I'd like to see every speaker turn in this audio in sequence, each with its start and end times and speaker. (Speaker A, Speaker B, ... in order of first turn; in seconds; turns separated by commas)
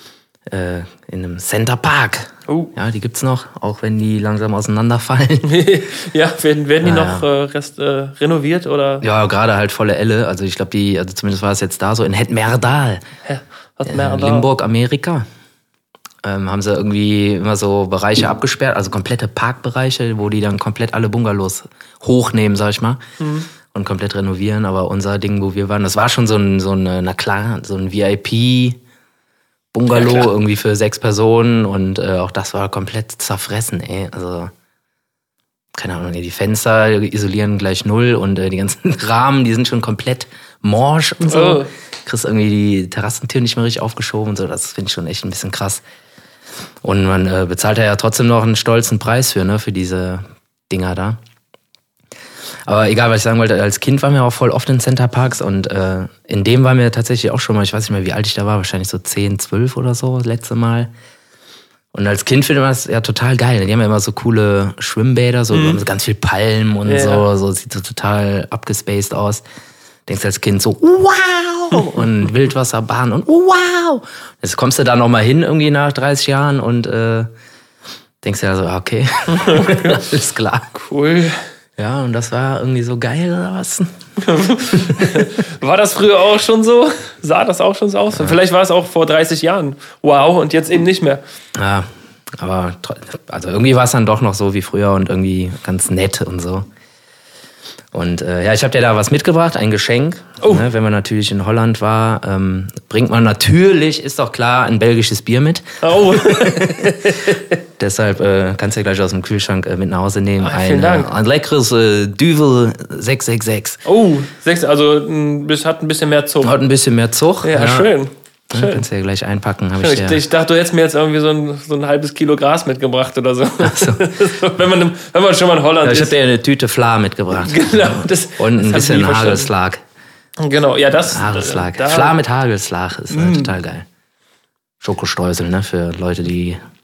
Speaker A: 0.5-5.5, Speaker B: 2.5-2.7, Speaker B: 5.4-9.1, Speaker A: 6.8-7.2, Speaker A: 9.0-13.0, Speaker B: 13.2-14.5, Speaker A: 13.9-15.2, Speaker A: 16.2-23.1, Speaker B: 23.2-23.5, Speaker A: 23.7-28.8, Speaker A: 29.7-34.5, Speaker B: 29.9-30.3, Speaker A: 35.7-45.8, Speaker B: 41.2-41.7, Speaker A: 46.8-51.2, Speaker A: 52.7-60.9, Speaker A: 61.9-69.4, Speaker B: 65.5-65.8, Speaker B: 66.9-67.2, Speaker A: 70.1-77.3, Speaker A: 78.2-80.7, Speaker B: 79.3-80.0, Speaker B: 80.7-81.5, Speaker A: 81.8-83.9, Speaker B: 84.2-91.2, Speaker A: 84.7-85.2, Speaker A: 91.5-96.7, Speaker A: 97.9-106.9, Speaker B: 105.8-107.6, Speaker A: 107.8-113.8, Speaker B: 110.4-111.1, Speaker B: 113.8-116.5, Speaker A: 116.4-117.9, Speaker B: 117.4-118.8, Speaker A: 118.5-120.2, Speaker B: 119.8-126.1, Speaker A: 123.6-124.0, Speaker A: 125.8-129.8, Speaker B: 127.4-129.5, Speaker B: 130.4-132.2, Speaker A: 131.1-133.9, Speaker B: 133.1-133.5, Speaker A: 134.8-136.6